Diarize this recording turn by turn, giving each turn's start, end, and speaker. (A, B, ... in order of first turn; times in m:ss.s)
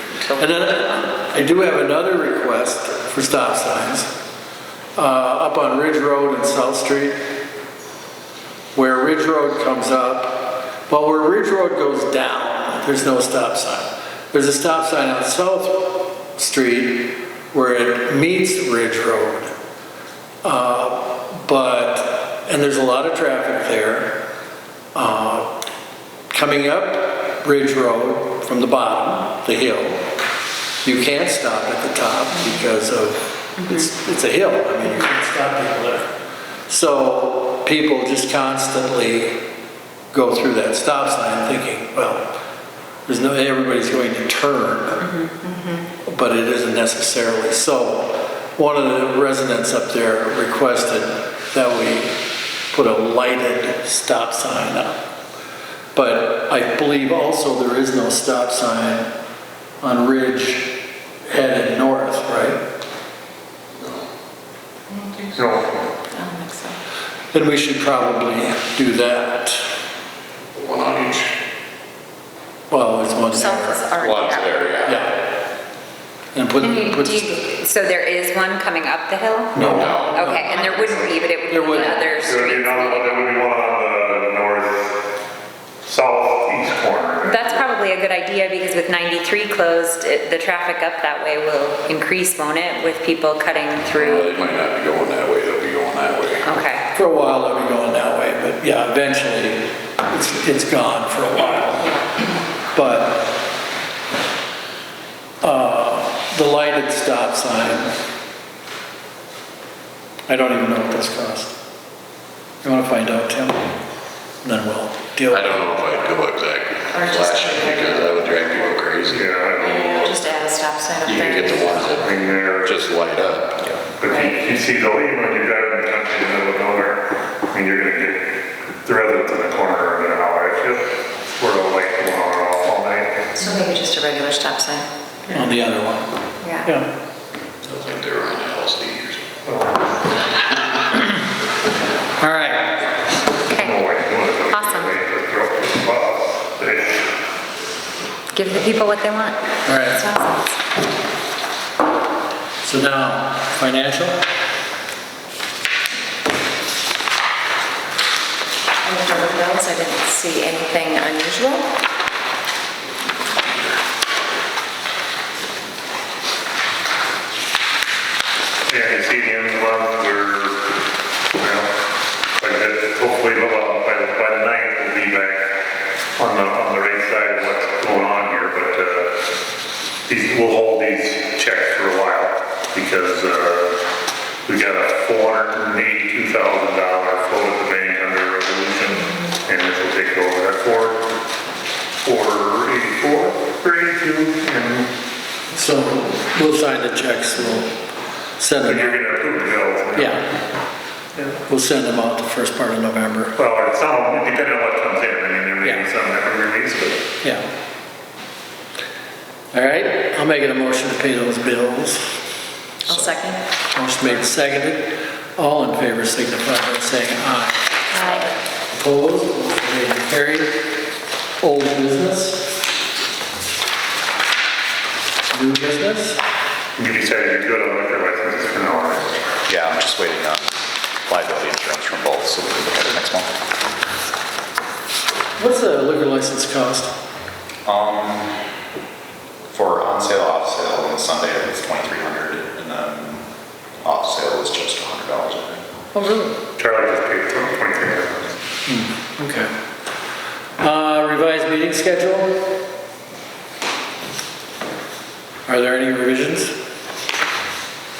0:00.1-0:01.0 A
0:00.4-0:04.1 B
0:05.0-0:07.2 B
0:08.8-0:19.5 B
0:20.4-0:24.3 B
0:24.9-0:25.6 B
0:26.3-0:30.1 B
0:30.8-0:36.1 B
0:36.7-0:39.4 B
0:40.1-0:42.3 B
0:43.1-0:45.1 B
0:45.2-0:45.9 C
0:46.0-0:55.0 B
0:56.0-0:59.1 B
0:59.8-1:02.6 B
1:04.9-1:05.3 C
1:05.4-1:05.8 D
1:06.1-1:06.8 C
1:07.3-1:09.6 B
1:10.6-1:11.3 E
1:12.7-1:13.9 B
1:13.3-1:14.8 C
1:14.0-1:15.0 E
1:14.8-1:15.2 B
1:16.3-1:17.4 B
1:16.6-1:23.2 A
1:19.5-1:20.7 B
1:19.7-1:20.3 E
1:20.3-1:21.0 C
1:21.5-1:22.2 B
1:22.1-1:25.0 D
1:25.8-1:27.6 D
1:27.2-1:34.3 A
1:33.9-1:36.4 E
1:36.4-1:36.9 A
1:36.9-1:41.9 B
1:42.8-1:43.4 B
1:45.4-1:48.0 B
1:50.3-1:51.6 B
1:52.6-1:53.7 B
1:54.4-1:55.6 B
1:55.3-1:59.3 E
1:56.9-1:58.8 C
1:59.1-2:00.2 D
1:59.6-2:01.9 C
2:01.0-2:03.8 E
2:01.6-2:02.8 D
2:04.0-2:13.3 D
2:04.1-2:04.4 C
2:13.4-2:15.5 C
2:15.3-2:16.1 B
2:16.4-2:16.7 C
2:16.6-2:16.9 B
2:17.6-2:19.2 E
2:19.4-2:19.8 D
2:22.2-2:22.9 B
2:23.5-2:23.8 A
2:23.5-2:27.1 D
2:24.5-2:24.9 A
2:28.3-2:29.4 A
2:29.6-2:30.0 B
2:30.0-2:30.4 C
2:32.6-2:34.2 B
2:38.8-2:41.7 C
2:48.7-2:50.7 D
2:51.3-2:51.7 D
2:52.4-2:55.5 D
2:56.2-2:59.2 D
3:00.1-3:03.8 D
3:04.5-3:11.1 D
3:12.0-3:14.9 D
3:15.5-3:17.7 B
3:18.4-3:19.0 B
3:18.6-3:20.2 D
3:19.9-3:20.2 B
3:21.2-3:23.3 B
3:23.4-3:27.1 D
3:25.6-3:25.9 B
3:27.2-3:27.5 B
3:29.5-3:32.1 B
3:32.8-3:33.4 C
3:33.7-3:37.7 B
3:37.9-3:38.3 C
3:38.7-3:40.8 B
3:41.4-3:42.6 B
3:45.3-3:46.2 B
3:46.8-3:49.2 D
3:49.5-3:50.5 F
3:51.0-3:53.4 F
3:55.4-3:56.9 B
3:57.6-3:58.4 F
3:59.5-4:03.3 F
4:03.8-4:05.7 F
4:05.9-4:06.4 B
4:06.6-4:08.3 D
4:08.7-4:09.5 B
4:10.6-4:12.6 B
4:15.4-4:16.6 B